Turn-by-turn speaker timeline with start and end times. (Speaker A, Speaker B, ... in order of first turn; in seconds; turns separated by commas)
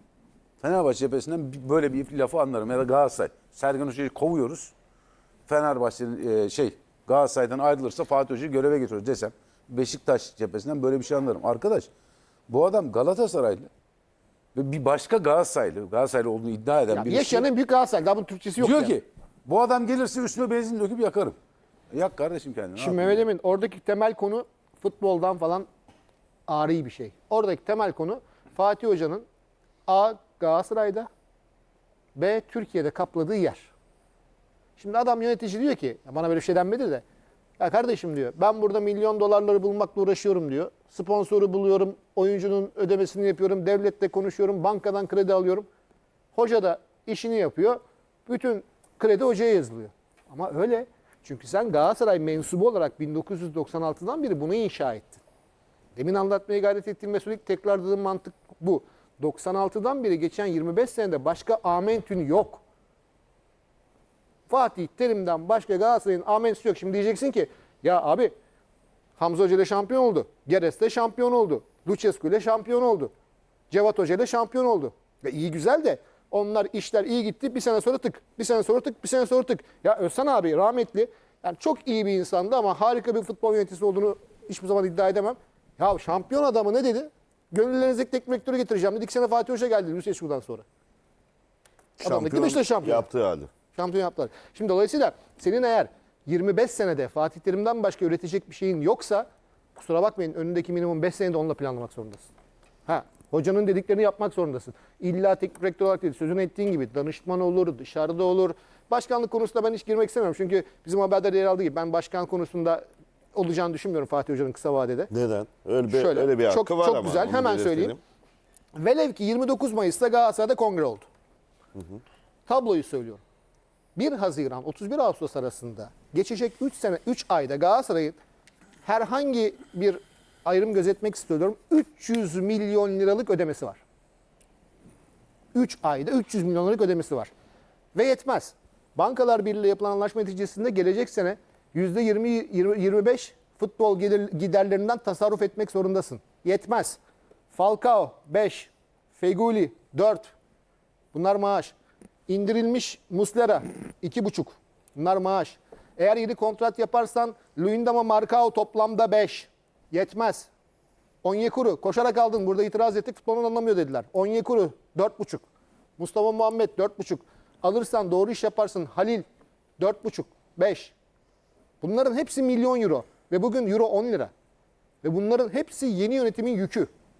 Speaker A: 0.6-4.7, Speaker A: 5.5-11.9, Speaker A: 12.5-13.7, Speaker A: 14.5-17.5, Speaker B: 16.9-19.0, Speaker A: 18.6-21.4, Speaker A: 21.9-23.2, Speaker B: 22.8-25.7, Speaker B: 26.5-29.2, Speaker B: 29.9-31.1, Speaker B: 32.1-33.7, Speaker B: 34.8-37.0, Speaker B: 37.6-45.7, Speaker B: 46.3-55.2, Speaker B: 55.9-62.6, Speaker B: 64.5-68.3, Speaker B: 69.2-73.1, Speaker B: 73.7-90.6, Speaker B: 92.0-93.0, Speaker C: 92.0-93.5, Speaker B: 93.7-102.3, Speaker B: 102.9-112.8, Speaker B: 113.3-115.1, Speaker C: 115.1-118.0, Speaker B: 115.9-118.0, Speaker B: 118.8-121.0, Speaker B: 122.5-123.2, Speaker B: 124.0-128.2, Speaker B: 128.8-133.8, Speaker B: 135.5-137.3, Speaker B: 137.9-147.0, Speaker B: 147.5-150.3, Speaker B: 151.1-151.8, Speaker B: 152.3-160.5, Speaker B: 161.2-165.4, Speaker B: 166.0-169.2, Speaker B: 169.8-170.9, Speaker B: 171.8-174.3, Speaker B: 175.0-176.9